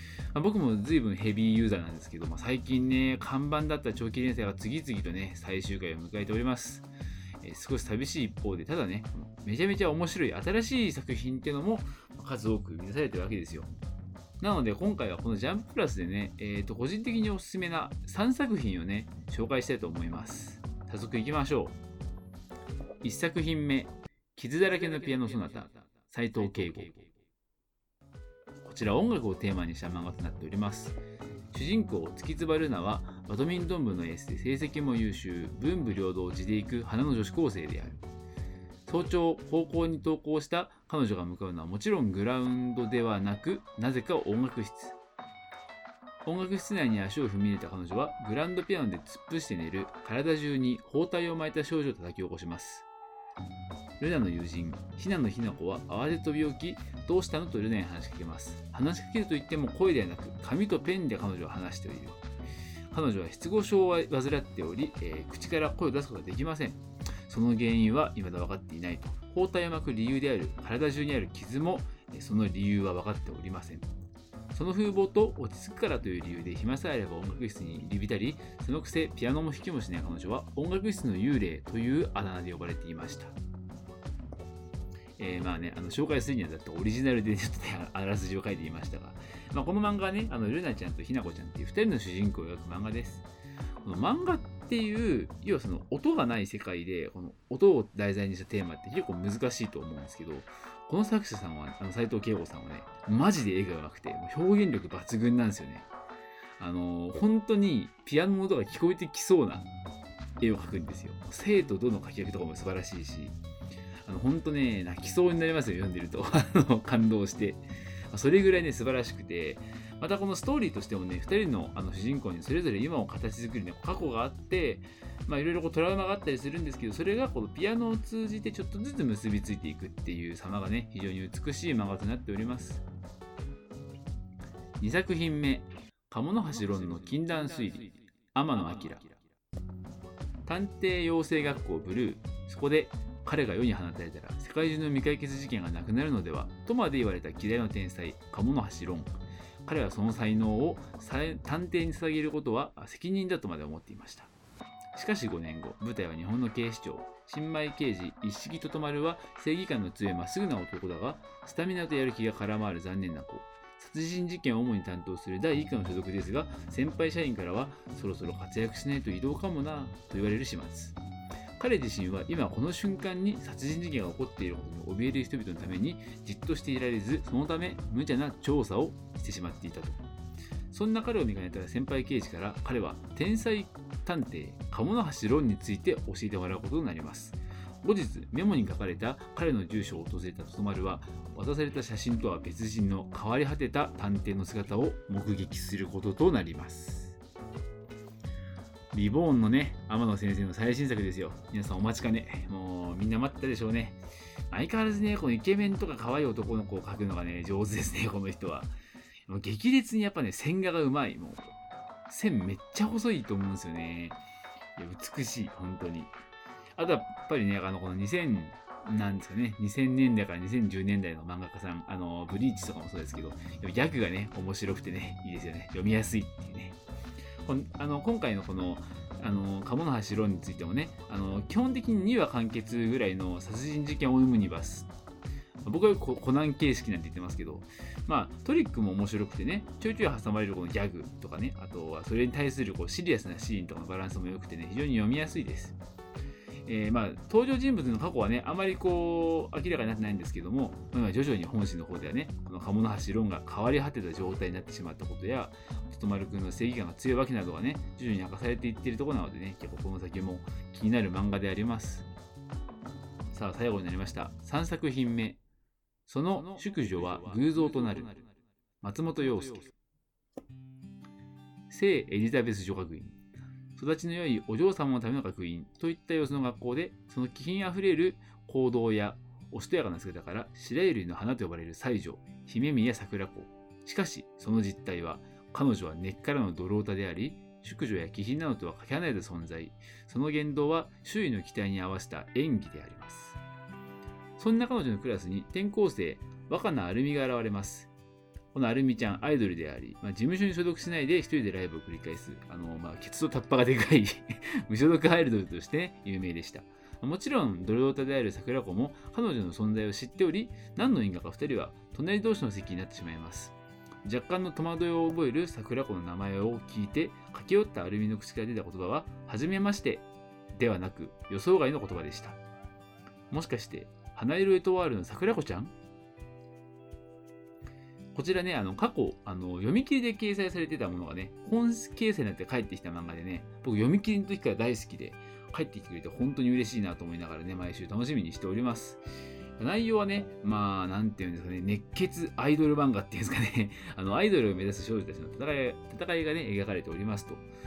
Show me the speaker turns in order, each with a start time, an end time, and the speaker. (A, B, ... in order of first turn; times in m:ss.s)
0:00.3-0:06.9 A
0:07.4-0:13.7 A
0:14.4-0:21.8 A
0:23.0-0:27.1 A
0:28.6-0:31.0 A
0:31.5-0:38.0 A
0:38.9-0:45.0 A
0:46.2-0:52.9 A
0:54.0-1:02.2 A
1:02.9-1:13.9 A
1:14.5-1:23.3 A
1:25.2-1:33.3 A
1:33.8-1:45.9 A
1:46.6-1:49.7 A
1:50.4-1:53.4 A
1:54.1-2:12.8 A
2:14.8-2:19.2 A
2:20.4-2:29.1 A
2:29.6-2:34.3 A
2:34.9-2:51.0 A
2:51.6-3:00.0 A
3:00.7-3:17.2 A
3:18.9-3:24.0 A
3:24.5-3:28.7 A
3:29.3-3:31.5 A
3:32.1-3:34.2 A
3:34.8-3:36.1 A
3:36.8-3:46.8 A
3:47.4-3:54.9 A
3:55.6-4:05.8 A
4:06.7-4:22.1 A
4:23.3-4:25.4 A
4:26.1-4:28.2 A
4:28.8-4:29.7 A
4:31.7-4:33.2 A
4:33.8-4:53.4 A
4:54.4-4:57.9 A
4:58.5-5:22.4 A
5:23.3-5:25.7 A
5:28.1-5:39.0 A
5:39.6-5:47.4 A